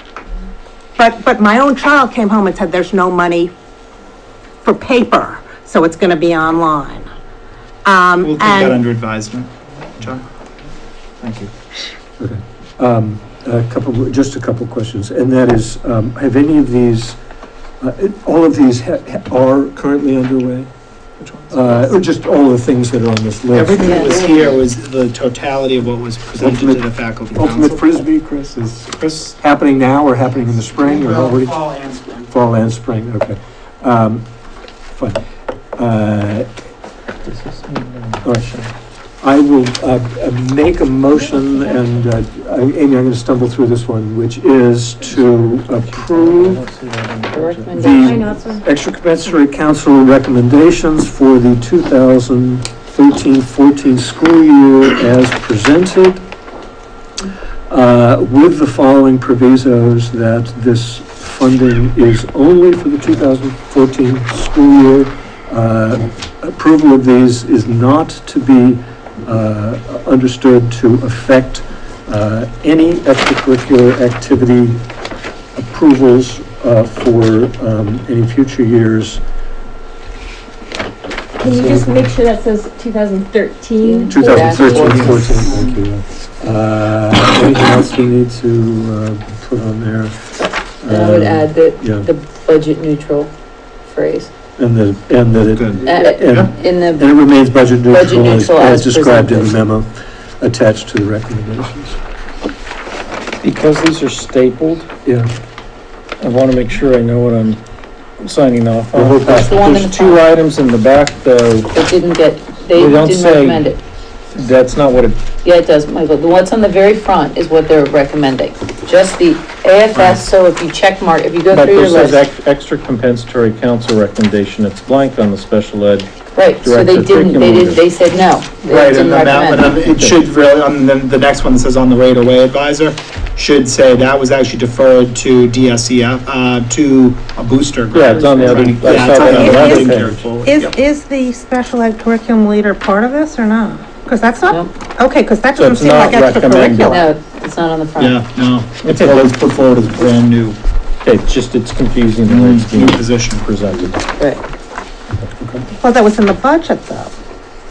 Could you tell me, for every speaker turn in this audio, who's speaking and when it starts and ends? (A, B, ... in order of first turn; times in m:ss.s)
0:01.0-0:03.5 A
0:04.6-0:07.1 A
0:07.8-0:08.8 A
0:08.2-0:10.3 B
0:11.2-0:11.5 B
0:12.2-0:17.2 C
0:17.8-0:20.7 C
0:21.2-0:21.9 B
0:21.5-0:24.1 C
0:23.5-0:27.9 B
0:23.8-0:24.6 D
0:26.4-0:34.2 C
0:28.9-0:29.4 B
0:34.9-0:35.2 C
0:35.8-0:36.5 C
0:37.2-0:38.7 E
0:38.2-0:38.5 C
0:39.2-0:46.6 C
0:45.1-0:48.0 E
0:47.3-0:48.2 D
0:47.7-0:56.2 C
0:48.0-0:48.6 F
0:57.7-1:14.8 C
1:15.6-1:19.2 C
1:21.4-1:22.1 C
1:21.4-1:25.4 F
1:23.8-1:25.2 D
1:24.1-1:30.2 C
1:25.1-1:25.7 B
1:30.8-1:32.1 C
1:30.8-1:33.3 D
1:33.8-1:34.3 D
1:34.6-1:42.0 C
1:35.5-1:36.5 B
1:35.9-1:37.3 D
1:37.9-1:39.6 D
1:43.4-1:44.9 E
1:45.0-1:45.3 C
1:46.2-1:47.6 E
1:48.2-1:51.7 E
1:48.9-1:49.5 C
1:49.3-1:50.2 D
1:51.7-1:53.8 D
1:52.7-1:53.7 E
1:54.4-1:55.2 E
1:55.4-2:02.2 D
1:59.9-2:00.2 B
2:01.5-2:07.8 E
2:06.3-2:09.8 D
2:08.6-2:20.7 B
2:09.8-2:10.2 E
2:17.9-2:20.2 E
2:18.8-2:27.1 A
2:25.6-2:27.0 E
2:26.9-2:28.2 D
2:28.0-2:30.6 B
2:28.8-2:29.3 E
2:31.0-2:34.0 E
2:32.3-2:33.5 B
2:35.2-2:35.6 E
2:35.8-2:37.1 A